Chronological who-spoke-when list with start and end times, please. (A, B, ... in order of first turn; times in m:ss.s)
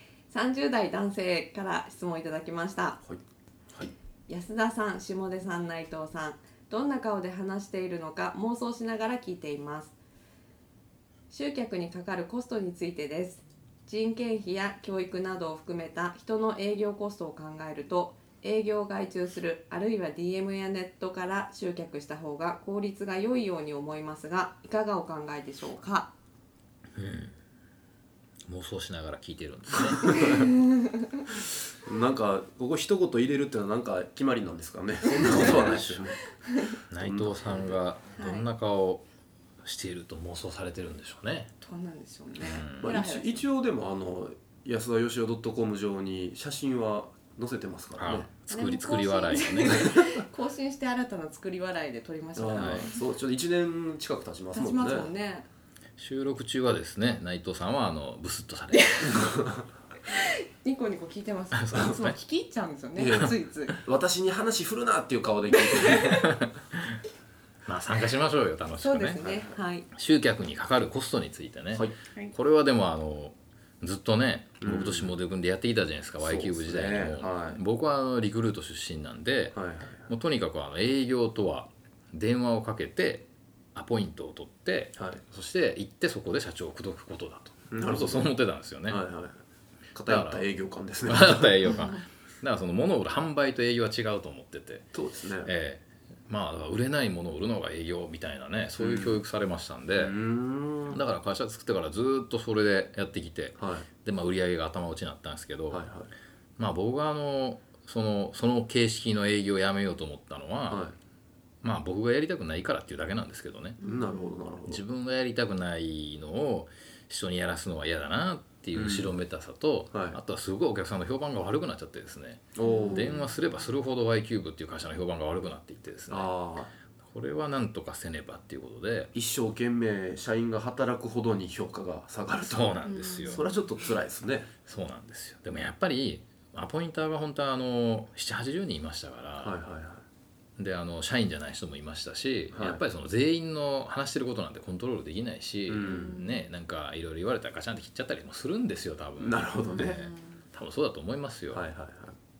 0:00.3-0:03.0 A
0:04.3-0:09.9 A
0:11.3-0:26.1 A
0:27.0-0:27.3 B
0:28.4-0:30.4 B
0:29.9-0:30.5 C
0:30.3-0:30.8 A
0:31.8-0:36.2 C
0:36.4-0:36.7 A
0:36.9-0:39.0 B
0:37.0-0:37.8 C
0:38.1-0:38.4 A
0:39.6-0:41.5 B
0:41.6-0:43.4 A
0:42.4-0:42.9 B
0:42.8-0:48.3 C
0:48.0-0:49.8 B
0:48.5-0:52.9 A
0:49.7-0:50.2 C
0:52.4-0:55.1 C
0:52.6-0:52.8 B
0:54.5-0:55.5 A
0:56.0-0:59.3 B
0:59.1-0:59.6 C
1:00.1-1:03.8 A
1:01.5-1:02.2 B
1:03.0-1:06.2 C
1:05.5-1:06.0 A
1:06.2-1:07.0 B
1:07.6-1:09.2 B
1:08.8-1:09.9 A
1:09.2-1:09.6 C
1:09.9-1:29.0 B
1:14.6-1:15.1 C
1:16.2-1:17.6 C
1:19.5-1:20.0 C
1:25.0-1:25.2 C
1:27.7-1:28.3 C
1:28.9-1:29.4 C
1:29.9-1:31.7 C
1:30.0-1:30.5 B
1:31.0-1:34.9 B
1:34.9-1:35.5 C
1:35.4-1:40.2 B
1:38.8-1:39.2 C
1:39.9-1:41.0 C
1:40.9-1:45.8 B
1:43.6-1:43.9 C
1:45.7-1:46.1 C
1:46.6-1:50.9 B
1:50.7-1:50.9 C
1:51.6-1:53.8 B
1:53.8-1:54.8 C
1:53.8-1:54.3 A
1:54.6-2:06.3 B
1:58.7-1:59.2 C
1:59.9-2:00.2 C
2:02.5-2:03.2 C
2:02.6-2:03.3 A
2:06.1-2:06.7 C
2:07.0-2:09.1 B
2:09.1-2:14.5 C
2:12.4-2:13.5 B
2:12.9-2:13.4 A
2:14.6-2:19.6 B
2:19.4-2:20.0 C
2:20.6-2:31.6 B
2:22.5-2:22.8 C
2:25.7-2:26.2 C
2:25.9-2:26.4 A
2:29.2-2:30.1 C
2:29.6-2:30.0 A
2:31.5-2:32.2 C